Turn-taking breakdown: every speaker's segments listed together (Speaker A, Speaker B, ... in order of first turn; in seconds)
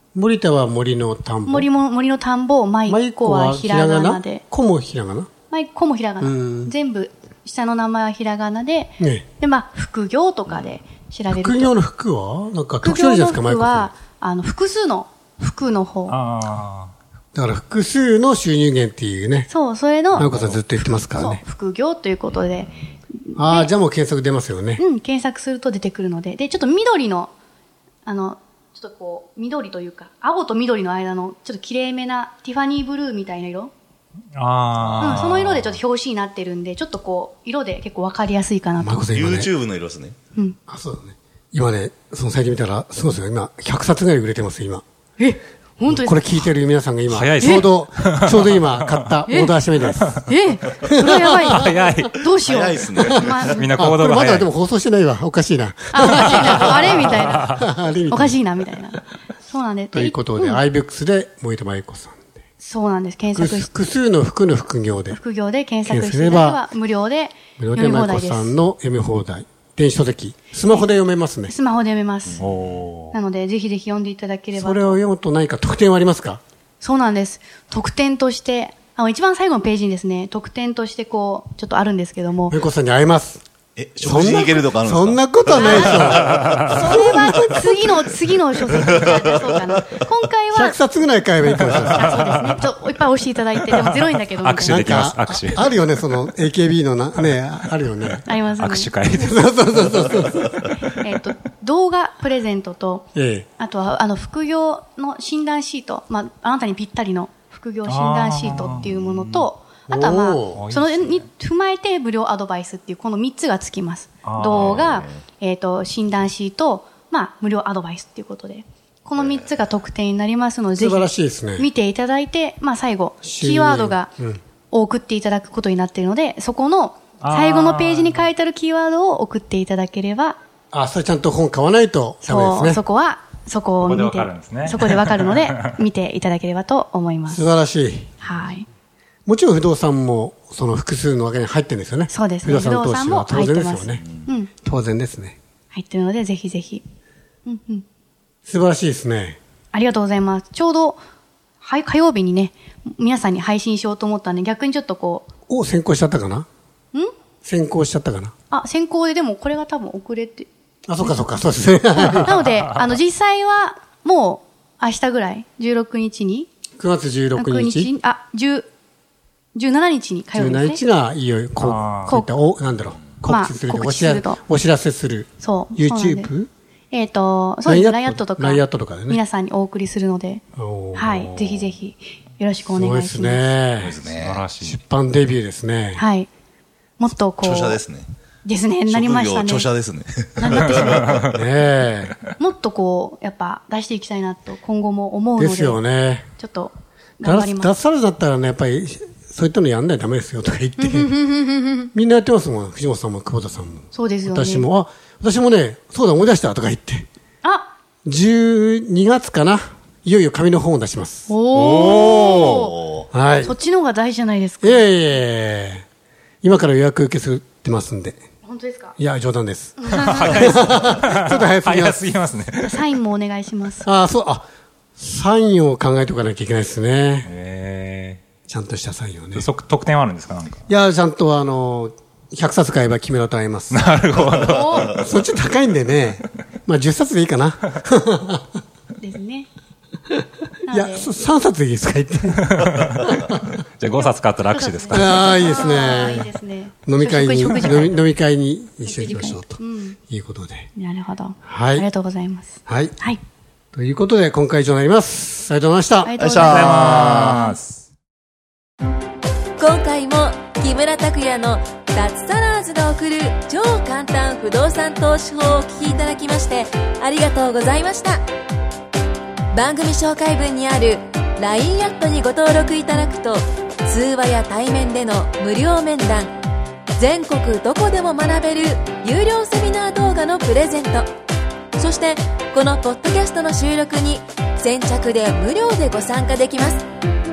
Speaker A: 0.1-1.7, 2.9-5.3, 6.2-6.7, 9.0-9.2, 11.3-13.9, 17.3-19.5, 20.1-21.4, 23.3-24.8, 38.8-39.5, 40.7-44.8, 45.9-50.2, 50.8-51.8, 53.0-58.5, 59.9-62.2, 63.3-65.2, 65.8-66.6, 67.6-71.5, 74.5-76.4, 82.5-83.4, 84.0-87.8, 90.5-92.2, 94.6-98.2, 99.1-100.5, 103.1-103.5, 109.9-110.6, 120.8-121.7, 123.2-124.4, 130.7-132.8, 137.3-138.1, 139.2-145.3, 148.5-149.4, 155.5-156.5, 157.4-158.3, 160.9-162.5, 166.8-167.9, 170.3-176.5, 177.6-179.2, 180.5-181.3, 182.7-184.0, 184.6-186.0, 191.3-192.1, 195.4-196.2, 197.2-201.1, 201.9-207.1, 208.0-211.3, 213.1-213.5, 214.6-215.8, 216.4-218.2, 219.0-222.0, 223.8-227.3, 228.4-229.5, 230.7-233.8, 234.9-238.6, 240.2-243.5, 244.9-246.3, 246.8-250.7, 251.4-251.9, 252.7-252.9, 253.7-256.2
Speaker B: 1.5-4.4, 5.5-11.8, 12.8-16.2, 19.5-20.3, 20.9-23.7, 24.8-27.3, 28.0-33.7, 35.0-39.0, 45.2-46.3, 47.4-47.7, 49.3-49.6, 50.2-53.7, 55.9-60.6, 62.6-63.8, 65.1-68.5, 70.7-72.4, 73.1-75.0, 76.8-82.5, 85.5-90.8, 91.7-94.9, 98.2-98.9, 100.9-103.1, 103.6-124.1, 124.7-130.4, 132.2-137.4, 138.2-138.7, 142.1-144.5, 145.7-146.8, 147.4-147.8, 149.7-151.0, 151.6-155.3, 158.5-160.5, 161.0-161.4, 162.0-166.5, 167.3-168.7, 169.5-170.8, 173.2-174.4, 175.4-176.3, 176.9-180.4, 180.9-183.5, 185.9-186.3, 187.0-187.8, 188.4-189.7, 190.4-191.2, 192.4-195.8, 196.4-197.7, 200.8-201.9, 203.9-204.7, 207.4-207.7, 211.3-212.7, 213.4-214.9, 218.4-218.9, 222.6-223.9, 234.4-234.9, 239.0-239.5, 240.7-241.1, 243.9-248.0, 248.8-250.0, 250.7-253.2, 256.0-257.4
Speaker C: 16.1-16.9, 34.3-35.7, 47.1-49.2, 51.5-52.1, 53.6-54.5, 72.4-73.2, 93.8-95.7, 98.6-99.4, 107.8-109.4, 110.5-111.3, 114.2-114.8, 127.2-128.3, 133.8-135.8, 171.6-172.1, 184.1-184.8, 211.5-212.6, 219.9-222.8, 227.2-228.2, 229.3-230.6, 233.7-234.9, 243.8-245.4, 256.4-257.8
Speaker D: 20.1-20.5, 34.7-35.5, 39.1-40.1, 52.3-53.7, 72.2-72.9, 83.8-87.7, 88.7-89.6, 108.6-109.4, 114.5-115.2, 119.2-119.5, 183.8-184.4, 187.4-188.1, 188.9-191.4, 212.1-213.1, 256.2-257.5
Speaker E: 259.6-268.2, 269.5-276.3, 277.0-281.1, 281.8-286.8